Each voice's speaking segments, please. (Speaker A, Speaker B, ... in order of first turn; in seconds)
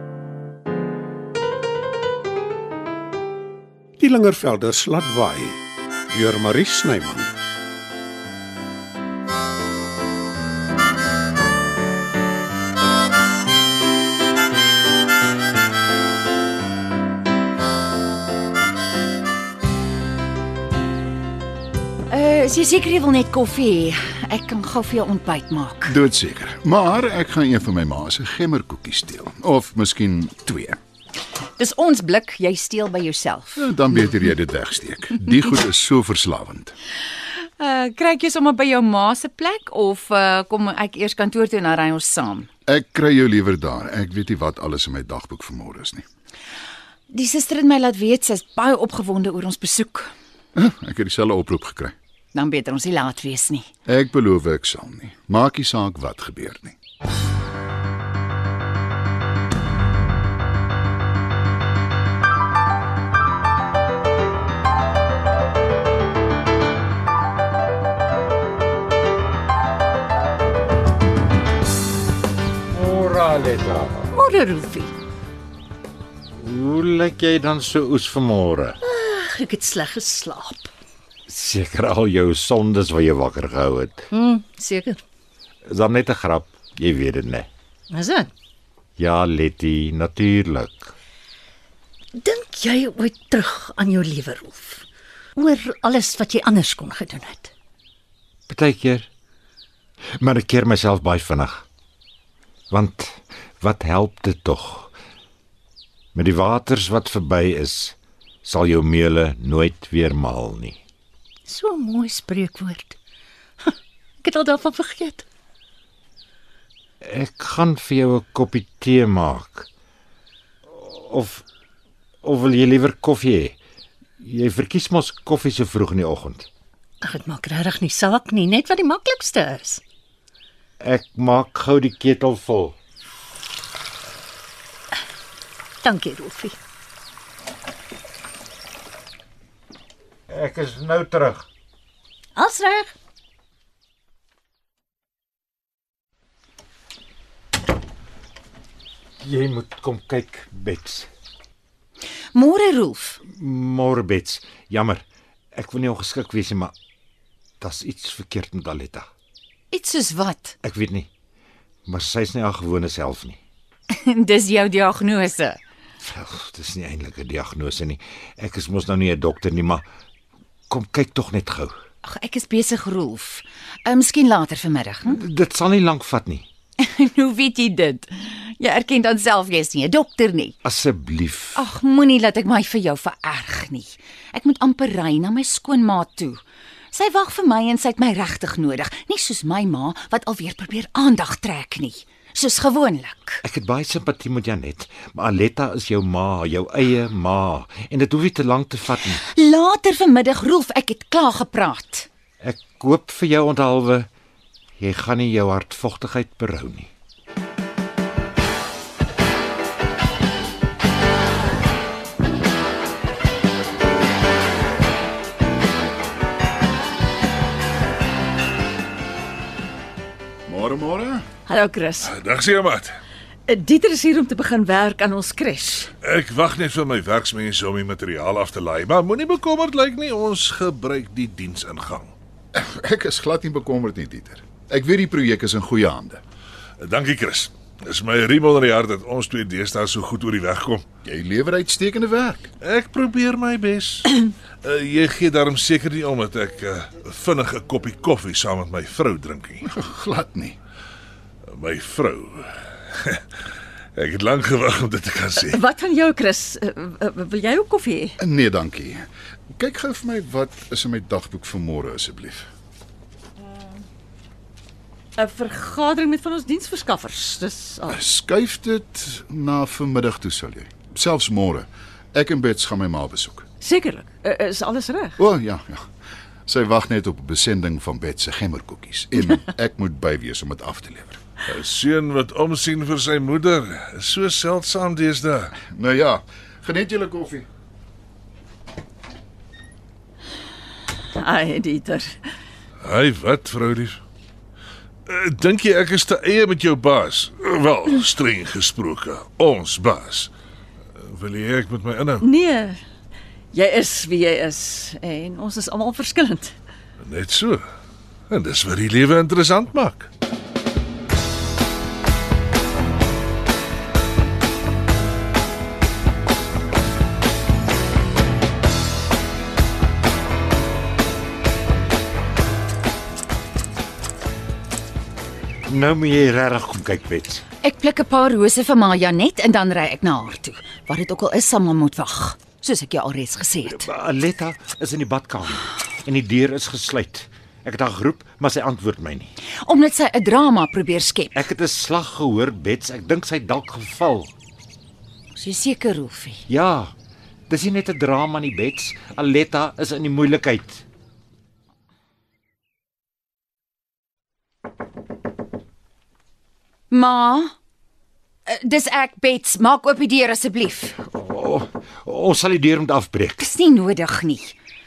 Speaker A: 4.0-7.3
Speaker B: 22.1-26.0, 31.6-33.6, 37.6-42.5, 47.1-50.1, 52.3-53.7, 152.3-153.2, 159.7-160.6, 163.9-165.6, 172.0-175.2, 176.8-180.6, 181.5-186.4, 186.9-193.4, 199.1-202.1, 327.6-333.9, 339.5-341.4, 345.4-346.4, 356.9-357.5, 358.5-361.0, 363.4-364.5
Speaker C: 25.9-30.8, 33.6-36.7, 42.7-46.0, 50.6-51.9, 53.9-56.8, 220.5-221.3, 232.5-236.2, 241.0-242.5, 249.7-250.6, 258.2-262.5, 267.9-273.4, 275.2-275.8, 276.5-281.2, 285.6-287.5
Speaker D: 72.7-74.1, 76.4-78.8, 81.3-84.1, 85.7-87.5, 89.0-90.9, 98.5-99.1, 100.2-101.7, 102.7-104.9, 106.1-110.8, 117.0-119.7, 120.7-121.4, 122.2-123.6, 124.2-126.5, 130.8-132.8, 140.3-141.5, 149.2-151.1, 153.3-156.7, 157.6-159.1, 160.6-161.1, 161.9-163.4, 166.0-169.8, 170.7-171.7, 175.1-176.5, 180.6-181.6, 193.4-199.2, 202.4-204.1, 204.8-206.9, 325.7-327.4, 333.6-339.3, 341.4-344.3, 346.5-346.9, 347.5-350.8, 361.0-363.5
Speaker E: 74.1-74.9, 78.8-80.7, 84.1-85.0, 87.9-88.3, 92.2-94.8, 95.4-97.5, 111.5-113.0, 113.6-115.2, 127.0-129.8, 135.8-136.6, 142.4-142.9
Speaker F: 221.5-222.1, 223.5-225.9, 255.4-258.1, 265.2-268.0, 273.6-275.2, 291.2-292.1, 302.2-302.8, 303.5-306.6
Speaker G: 222.0-222.9, 226.0-232.1, 236.8-240.8, 242.6-249.7, 251.5-253.2, 254.0-255.6, 281.5-285.6, 292.8-294.0, 295.1-300.3, 301.0-302.3, 307.0-307.6, 308.3-310.1